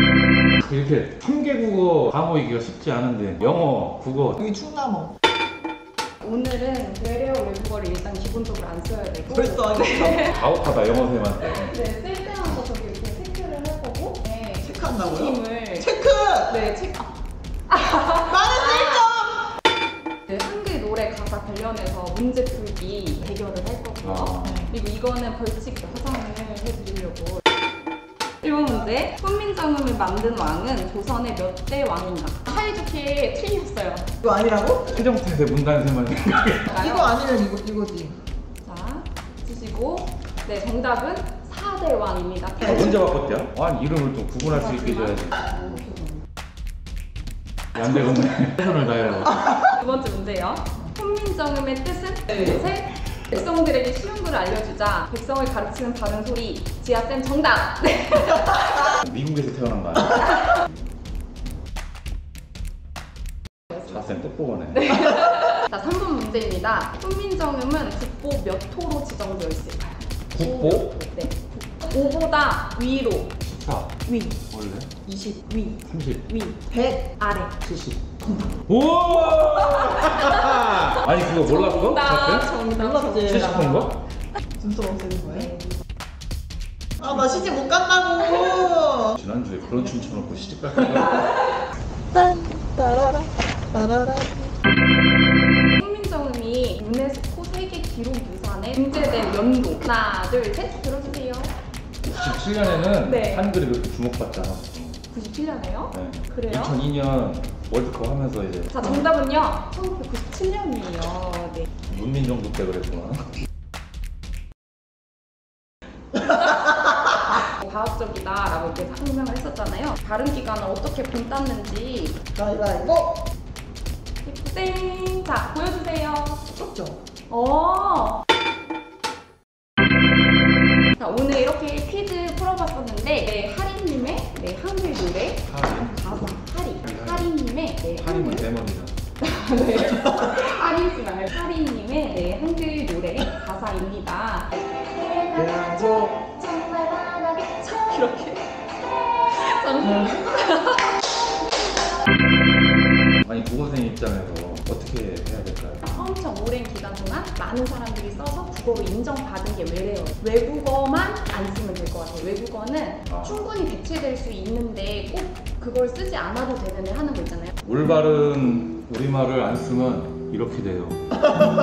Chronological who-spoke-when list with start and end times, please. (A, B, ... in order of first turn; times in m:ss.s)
0:00.6-0:04.4 A
0:04.4-0:05.1 B
0:06.2-0:10.5 C
0:09.3-0:10.3 B
0:10.2-0:11.8 A
0:11.4-0:17.1 C
0:14.6-0:16.7 B
0:17.7-0:19.0 C
0:18.2-0:19.5 B
0:20.3-0:27.4 C
0:24.0-0:24.6 A
0:24.5-0:24.7 B
0:28.4-0:34.1 C
0:34.2-0:34.9 B
0:34.9-0:36.7 A
0:36.7-0:38.2 B
0:36.7-0:37.1 C
0:38.6-0:43.0 C
0:42.6-0:45.4 A
0:44.4-0:46.2 C
0:47.8-0:49.8 A
0:49.7-0:59.0 C
0:58.9-1:00.3 A
1:03.8-1:05.0 A
1:04.8-1:13.4 C
1:10.3-1:10.9 A
1:13.4-1:14.0 A
1:14.1-1:14.4 C
1:14.5-1:14.9 A
1:15.1-1:16.6 C
1:15.8-1:16.2 A
1:16.7-1:17.1 B
1:17.2-1:17.6 C
1:17.7-1:18.0 A
1:18.7-1:22.6 A
1:19.4-1:23.5 C
1:22.6-1:23.9 B
1:23.2-1:24.0 A
1:24.6-1:25.5 B
1:27.0-1:29.2 B
1:29.1-1:31.5 A
1:32.1-1:34.5 B
1:35.8-1:41.5 C
1:42.1-1:45.0 A
1:43.0-1:43.4 C
1:45.1-1:46.8 C
1:45.9-1:48.8 A
1:48.7-1:51.7 C
1:51.9-1:53.3 A
1:57.4-2:02.2 C
2:02.4-2:03.2 B
2:04.2-2:06.4 C
2:06.5-2:07.0 B
2:07.3-2:08.2 C
2:11.0-2:18.5 C
2:15.4-2:16.3 A
2:16.8-2:17.3 A
2:17.9-2:19.0 A
2:19.2-2:31.1 C
2:25.4-2:26.1 A
2:33.2-2:35.9 A
2:35.8-2:47.5 C
2:43.1-2:43.4 A
2:47.6-2:51.0 A